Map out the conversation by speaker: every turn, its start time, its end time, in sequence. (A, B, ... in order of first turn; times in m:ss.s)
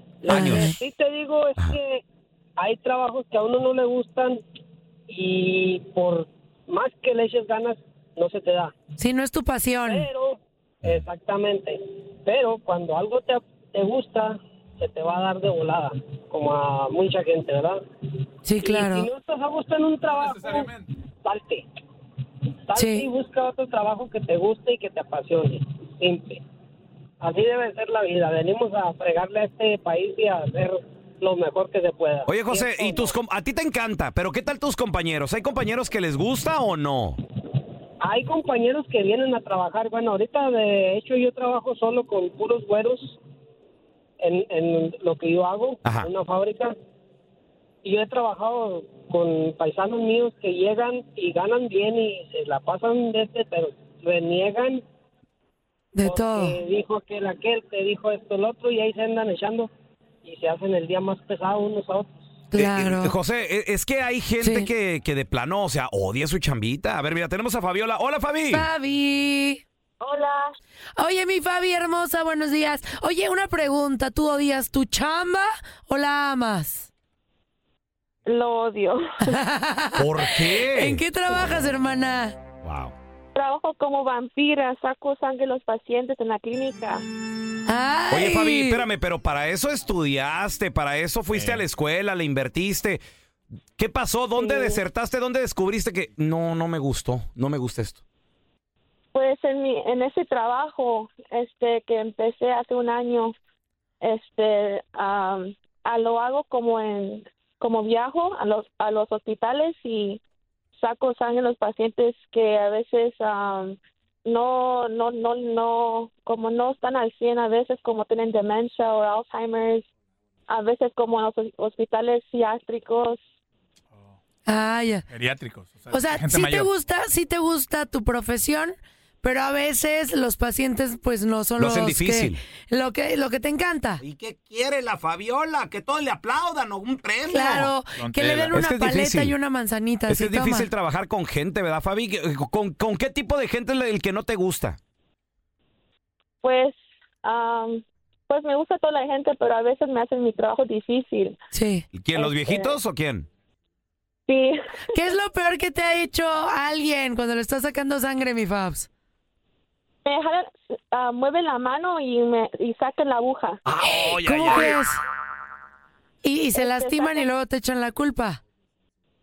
0:00.2-0:02.0 A
0:00.2-0:00.7 B
0:00.3-0:00.8 C
0:02.6-0:04.4 A
0:05.1-0:08.7 A
0:09.0-0:10.1 C
0:09.9-0:17.8 A
0:18.4-0:19.1 C
0:18.6-0:21.6 A
0:20.1-0:20.9 D
0:22.7-0:26.4 A
0:22.8-0:23.1 C
0:27.2-0:33.1 A
0:32.2-0:37.2 B
0:38.0-0:43.2 A
0:44.2-0:46.7 A
0:45.8-0:46.1 B
0:47.8-0:54.8 A
0:55.9-0:56.6 C
0:56.0-0:59.7 A
1:00.2-1:02.2 A
1:02.5-1:03.1 C
1:02.5-1:08.7 B
1:04.4-1:04.7 C
1:08.5-1:09.6 C
1:10.0-1:10.5 E
1:11.0-1:16.9 C
1:18.2-1:19.2 E
1:19.2-1:22.4 C
1:20.0-1:21.0 B
1:22.6-1:22.9 B
1:23.3-1:27.0 E
1:27.7-1:28.8 C
1:28.1-1:33.0 B
1:31.3-1:31.6 D
1:33.8-1:38.0 B
1:34.4-1:34.8 E
1:39.1-1:43.3 E
1:44.0-1:50.2 E
1:50.8-1:59.8 E
2:00.5-2:03.2 E
2:04.5-2:05.1 C
2:05.1-2:06.7 D
2:05.9-2:14.0 C
2:11.6-2:12.4 B
2:14.0-2:17.7 F
2:17.3-2:20.7 C
2:18.0-2:18.5 D
2:18.2-2:19.3 B
2:20.1-2:24.8 B
2:26.4-2:31.4 E
2:31.5-2:31.8 C
2:31.9-2:33.3 B
2:32.1-2:32.8 E
2:34.3-2:34.6 E
2:34.9-2:38.9 C
2:40.0-2:43.6 E
2:43.7-2:44.7 B
2:43.8-2:45.0 C
2:46.2-2:48.4 C
2:46.5-2:47.3 E